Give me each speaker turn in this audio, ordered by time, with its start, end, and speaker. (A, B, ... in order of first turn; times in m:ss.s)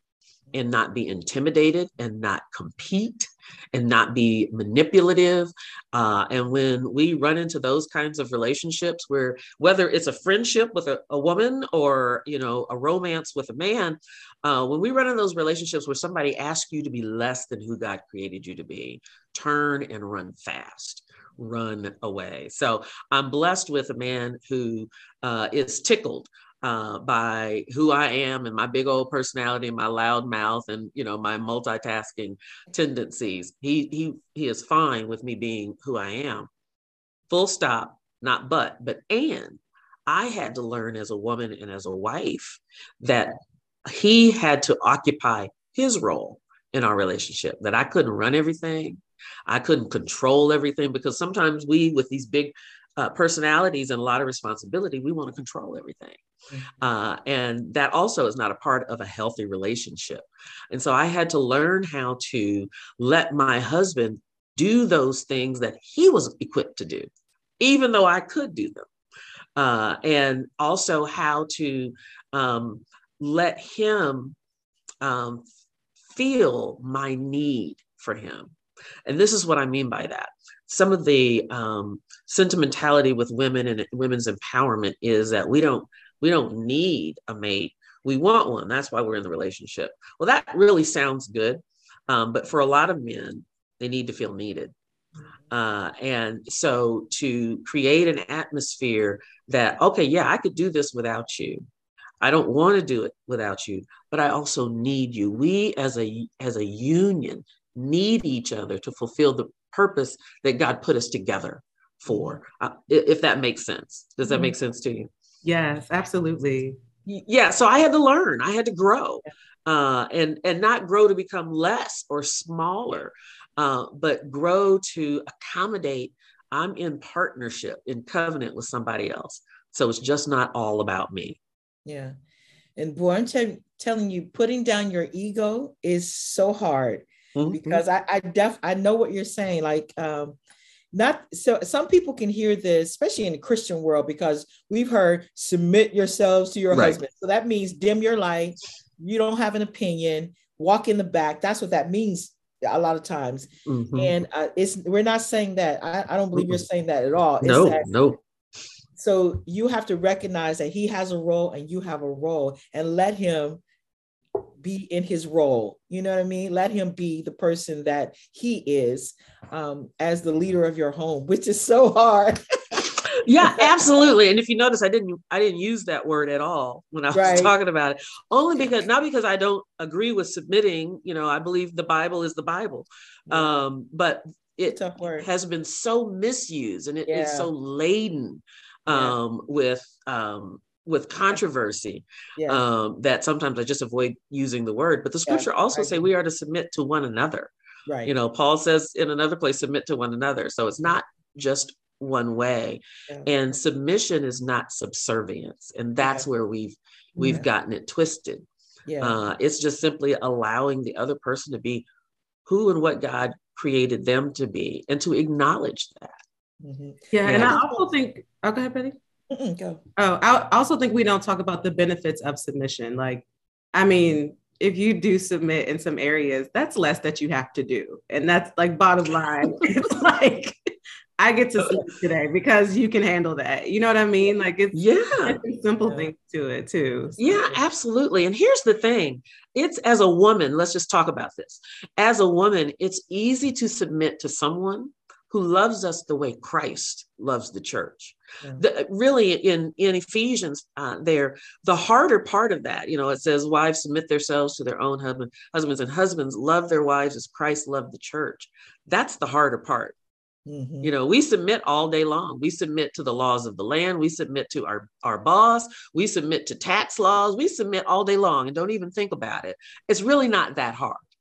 0:00.5-0:36.5 A
0:37.3-0:56.2 A
0:56.5-0:56.8 B
0:56.8-1:08.9 A
1:09.6-1:14.4 A
1:15.0-1:15.4 A
1:16.1-1:18.6 A
1:19.1-1:34.7 A
1:35.5-1:41.6 A
1:42.2-1:55.1 A
1:52.1-1:52.4 B
1:55.4-1:56.8 C
1:57.1-2:11.4 A
2:11.8-2:12.2 B
2:12.8-2:20.4 B
2:17.4-2:17.8 A
2:20.9-2:37.9 B
2:26.7-2:27.0 A
2:33.7-2:34.1 A
2:36.3-2:36.6 A
2:37.4-2:38.2 A
2:39.0-2:43.6 B
2:44.6-2:52.8 B
2:53.2-3:17.5 A
2:53.4-2:53.7 B
2:57.1-2:57.5 B
3:03.3-3:03.6 B
3:04.7-3:05.3 B
3:07.1-3:07.5 B
3:08.9-3:09.2 B
3:12.4-3:12.6 B
3:15.3-3:16.1 B
3:17.9-3:18.1 B
3:18.0-3:28.5 A
3:26.0-3:26.3 B
3:27.2-3:27.5 B
3:28.9-3:29.2 B
3:29.0-3:31.9 A
3:32.5-3:36.2 A
3:36.6-3:37.9 B
3:37.1-3:39.0 C
3:37.2-3:37.6 A
3:39.3-3:39.8 B
3:40.0-3:50.6 C
3:51.2-3:57.2 C
3:54.7-3:55.4 A
3:57.1-3:57.6 B
3:57.2-4:20.0 A
4:20.5-4:20.9 B
4:20.8-4:31.1 A